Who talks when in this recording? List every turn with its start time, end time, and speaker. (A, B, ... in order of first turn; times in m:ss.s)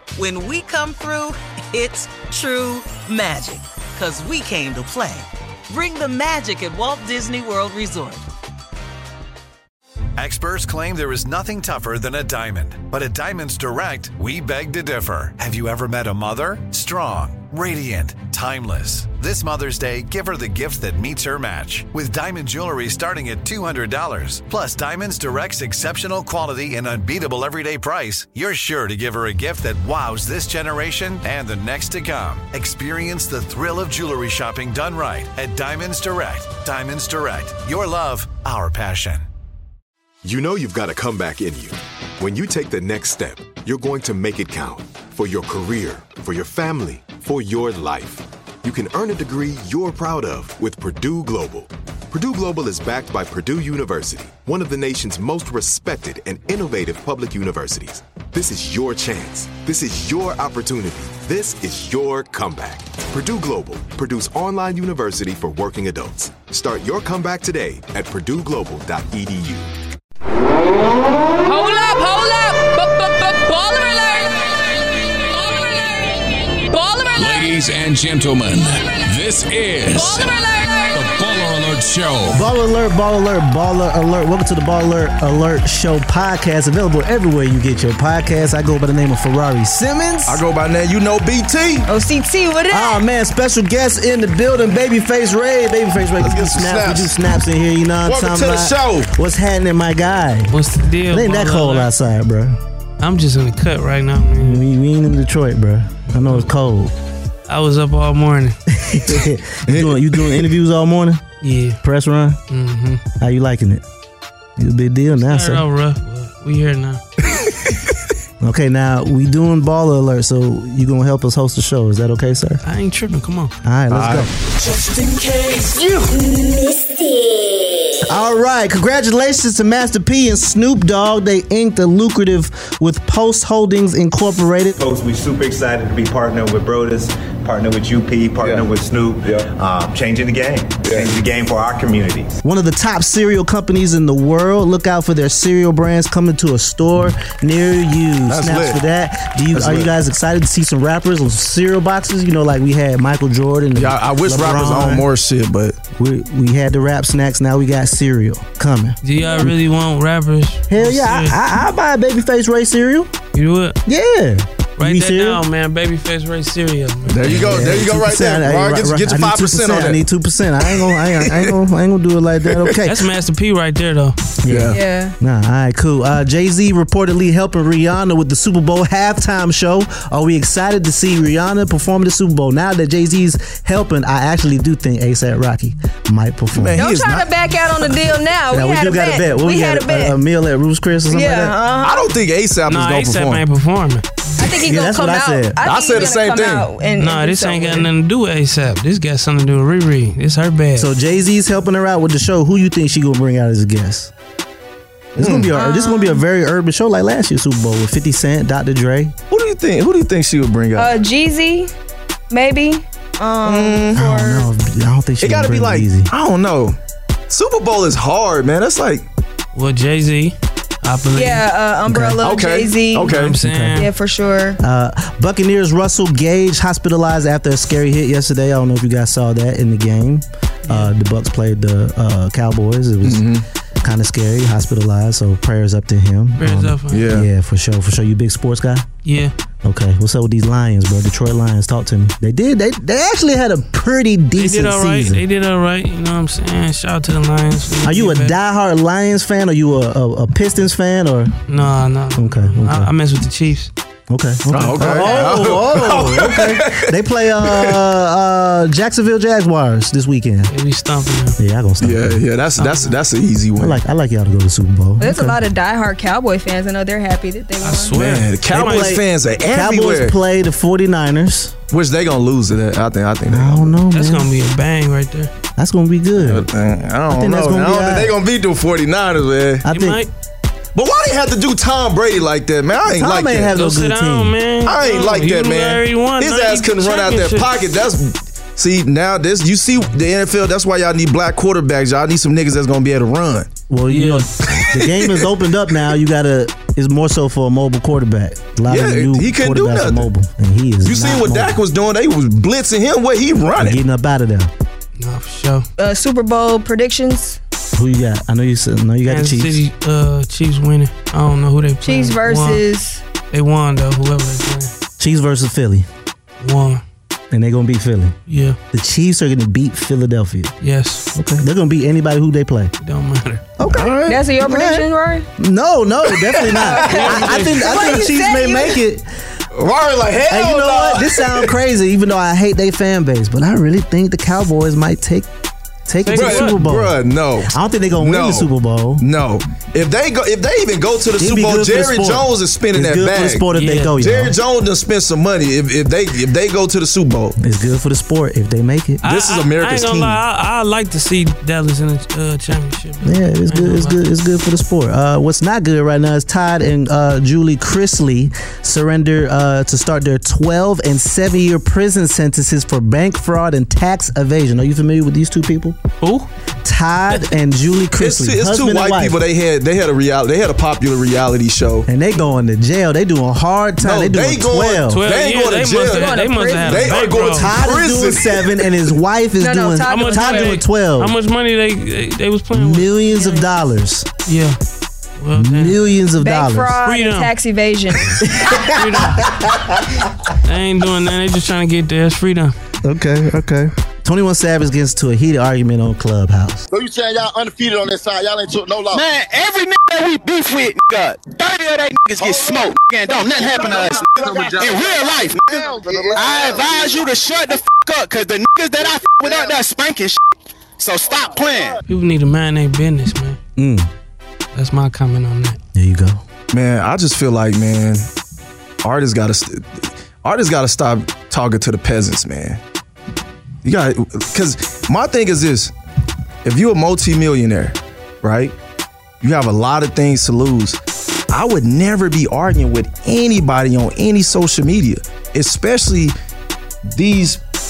0:00.2-0:08.2 A
0:10.2-0:39.2 B
0:40.2-1:09.7 C
1:11.4-1:17.6 D
1:17.2-1:20.3 E
1:19.8-1:21.0 D
1:20.9-1:22.4 E
1:22.3-1:30.4 F
1:30.2-1:31.9 G
1:31.8-1:33.0 H
1:32.7-1:40.5 F
1:36.2-1:37.1 G
1:38.0-1:39.1 G
1:40.5-1:41.9 I
1:41.1-1:42.6 F
1:43.0-1:44.6 I
1:44.4-1:46.9 F
1:46.2-1:46.5 I
1:47.5-1:48.6 I
1:48.7-1:51.2 F
1:49.6-1:50.5 G
1:51.4-1:51.8 I
1:51.8-1:52.4 F
1:52.5-1:53.0 I
1:53.2-1:53.8 F
1:54.6-1:55.6 F
1:55.2-1:57.0 I
1:57.3-1:57.7 G
1:58.4-2:02.6 F
2:02.6-2:03.5 I
2:03.6-2:04.3 F
2:03.9-2:04.3 G
2:05.6-2:06.2 G
2:08.0-2:14.7 F
2:14.8-2:22.4 J
2:20.8-2:21.1 G
2:22.4-2:35.1 F
2:28.3-2:28.8 G
2:29.5-2:29.9 G
2:33.7-2:35.8 G
2:35.9-2:39.5 F
2:39.0-2:41.3 I
2:40.7-2:43.1 F
2:43.3-2:43.8 I
2:43.8-2:45.4 F
2:44.8-2:47.8 I
2:47.1-2:50.0 G
2:47.3-2:52.9 F
2:50.9-2:51.5 G
2:52.5-2:52.8 G
2:52.8-2:54.2 I
2:54.4-3:06.8 F
2:54.5-2:54.8 G
2:54.7-2:55.1 H
3:06.5-3:07.3 G
3:06.8-3:10.2 H
3:08.5-3:11.6 F
3:11.1-3:12.1 H
3:11.8-3:13.4 G
3:12.6-3:14.0 I
3:14.4-3:17.9 H
3:14.6-3:15.6 F
3:15.6-3:16.7 G
3:17.0-3:20.9 I
3:20.8-3:24.1 F
3:25.2-3:25.5 G
3:25.2-3:29.1 F
3:25.5-3:26.2 H
3:29.3-3:31.0 G
3:30.8-3:31.7 H
3:32.3-3:34.5 H
3:33.4-3:34.0 G
3:33.9-3:36.1 F
3:35.2-3:36.8 G
3:37.3-3:39.0 G
3:39.5-3:41.4 I
3:41.1-3:43.1 H
3:41.8-3:42.2 F
3:42.2-3:43.4 G
3:43.0-3:43.9 I
3:43.4-3:43.9 F
3:43.7-3:44.6 H
3:44.6-3:53.3 F
3:50.6-3:50.9 I
3:53.0-3:53.4 G
3:53.8-3:58.9 F
3:56.4-3:57.1 I
3:56.9-3:57.3 G
3:59.0-3:59.3 I
3:59.6-4:05.2 F
4:04.4-4:08.4 I
4:07.8-4:11.4 F
4:11.5-4:13.7 I
4:12.2-4:12.9 F
4:14.1-4:20.5 F
4:14.5-4:16.9 G
4:14.9-4:15.3 H
4:17.4-4:17.8 G
4:20.5-4:21.4 I
4:21.4-4:22.2 F
4:21.8-4:23.8 G
4:22.6-4:23.0 I
4:23.6-4:25.4 F
4:25.0-4:28.0 H
4:27.6-4:29.0 I
4:27.9-4:30.1 G
4:28.5-4:31.6 F
4:31.7-4:33.8 G
4:33.2-4:34.3 F
4:33.9-4:35.3 I
4:35.6-4:36.5 F
4:36.1-4:39.6 G
4:37.1-4:38.1 F
4:39.6-4:40.0 F
4:39.6-4:40.1 I
4:40.7-4:43.5 G
4:43.0-4:44.4 F
4:43.5-4:47.5 I
4:44.6-4:53.5 G
4:53.7-5:01.6 F
4:53.9-4:54.6 I
4:54.6-4:55.3 G
4:58.7-5:00.1 G
5:00.8-5:03.8 G
5:03.6-5:04.5 F
5:05.0-5:05.7 I
5:05.8-5:07.4 H
5:07.7-5:09.6 F
5:09.0-5:12.6 I
5:11.8-5:13.0 H
5:13.3-5:14.7 I
5:15.0-5:15.9 F
5:16.4-5:16.8 I
5:17.3-5:18.2 F
5:18.3-5:18.6 I
5:18.7-5:20.5 F
5:20.6-5:21.2 I
5:21.1-5:22.7 F
5:22.8-5:23.4 I
5:23.6-5:29.1 F
5:23.7-5:24.2 G
5:24.1-5:25.3 H
5:26.2-5:27.9 G
5:26.4-5:28.8 H
5:26.9-5:27.7 I
5:29.5-5:31.5 G
5:30.3-5:35.3 F
5:35.8-5:39.0 F
5:36.0-5:36.6 I
5:36.1-5:43.4 G
5:41.2-5:44.4 F
5:43.5-5:44.0 I
5:44.0-5:47.4 G
5:47.4-5:49.0 F
5:49.0-5:54.0 I
5:49.0-5:50.2 G
5:53.0-6:05.8 F
6:06.0-6:06.3 I
6:06.6-6:09.2 F
6:08.0-6:11.8 G
6:11.8-6:15.0 F
6:13.8-6:18.7 G
6:14.9-6:17.6 I
6:15.8-6:17.1 H
6:17.4-6:21.1 F
6:19.4-6:20.6 H
6:19.8-6:23.3 I
6:22.5-6:24.1 F
6:24.2-6:24.6 I
6:25.2-6:25.9 I
6:25.3-6:26.8 F
6:26.2-6:28.2 H
6:26.8-6:27.3 I
6:28.2-6:30.1 F
6:28.6-6:29.4 I
6:30.4-6:32.5 I
6:32.8-6:36.6 F
6:36.7-6:39.0 K
6:38.9-6:50.2 L
6:42.2-6:42.6 K
6:43.2-6:46.7 K
6:50.8-6:51.8 L
6:51.8-6:53.4 I
6:53.6-6:53.9 F
6:54.5-6:55.6 I
6:55.7-6:56.2 F
6:56.5-6:58.1 G
6:58.8-7:02.6 G
7:03.6-7:05.7 G
7:06.4-7:08.5 G
7:09.2-7:10.8 G
7:11.3-7:16.1 G
7:16.9-7:17.4 G